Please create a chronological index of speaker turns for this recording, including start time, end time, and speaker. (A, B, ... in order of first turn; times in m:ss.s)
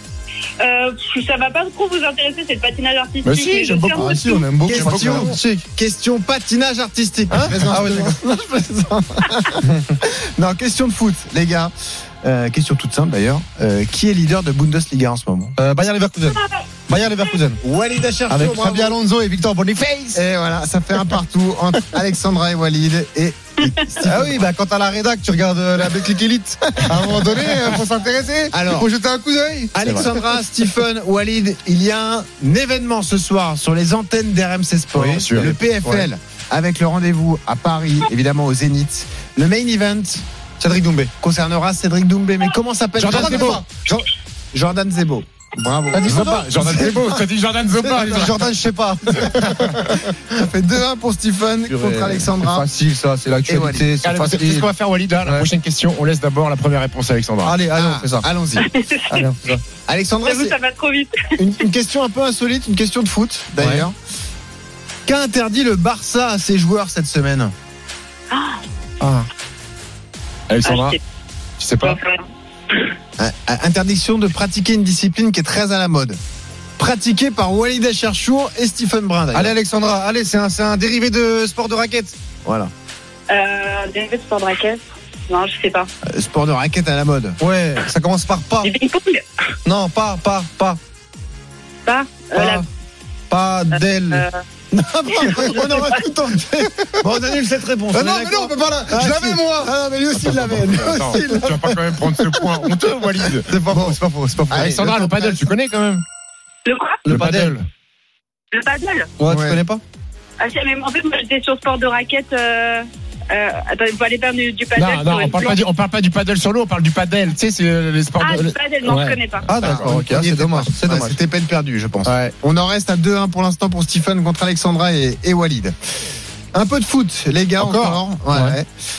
0:00.6-0:04.5 A
0:03.2-0:04.1 B
0:03.9-0:15.6 C
0:04.0-0:05.7 D
0:04.7-0:05.3 B
0:07.3-0:08.2 D
0:15.6-0:17.6 D
0:17.6-0:19.0 C
0:18.3-0:20.2 D
0:20.1-0:24.5 C
0:24.0-0:30.2 D
0:26.9-0:27.3 C
0:28.5-0:28.9 C
0:29.7-0:40.2 C
0:35.0-0:36.1 D
0:35.0-0:35.5 B
0:40.6-0:41.1 D
0:41.2-0:44.0 C
0:43.0-0:43.6 B
0:43.0-0:43.6 D
0:44.5-0:46.9 C
0:45.9-0:46.8 D
0:46.0-0:48.5 B
0:47.8-0:50.1 D
0:49.3-0:49.6 B
0:49.5-0:52.7 C
0:51.7-0:54.7 D
0:53.5-0:53.9 C
0:54.0-0:57.6 B
0:55.2-0:55.5 D
0:57.4-0:58.2 D
0:57.7-0:58.7 C
0:58.6-0:59.3 A
0:59.1-0:59.6 D
0:59.9-1:00.6 C
1:00.2-1:01.1 A
1:01.4-1:04.0 C
1:03.6-1:03.9 D
1:05.0-1:07.5 C
1:08.3-1:08.6 A
1:10.5-1:11.0 B
1:10.6-1:11.0 A
1:11.6-1:12.0 B
1:11.8-1:12.3 A
1:13.2-1:16.2 C
1:16.8-1:19.6 C
1:19.3-1:22.1 D
1:22.4-1:22.7 C
1:23.3-1:25.9 A
1:26.1-1:27.4 C
1:27.4-1:28.7 D
1:28.6-1:29.2 A
1:29.6-1:30.8 D
1:31.9-1:32.6 A
1:32.4-1:32.6 D
1:33.3-1:34.2 D
1:33.7-1:34.4 A
1:34.7-1:42.7 C
1:35.2-1:35.9 A
1:37.9-1:39.7 D
1:40.1-1:43.5 B
1:43.4-1:44.8 D
1:43.7-1:44.0 C
1:44.5-1:45.5 C
1:44.5-1:46.0 B
1:46.6-1:47.0 A
1:47.0-1:47.6 D
1:47.1-1:47.6 B
1:48.5-1:49.1 A
1:49.2-1:49.8 D
1:49.3-1:49.6 C
1:50.4-1:55.6 A
1:54.7-1:59.2 B
1:58.2-1:59.4 A
1:59.5-2:01.2 D
1:59.6-2:05.8 C
2:02.0-2:02.3 D
2:06.5-2:08.7 C
2:07.6-2:08.0 B
2:08.3-2:08.6 D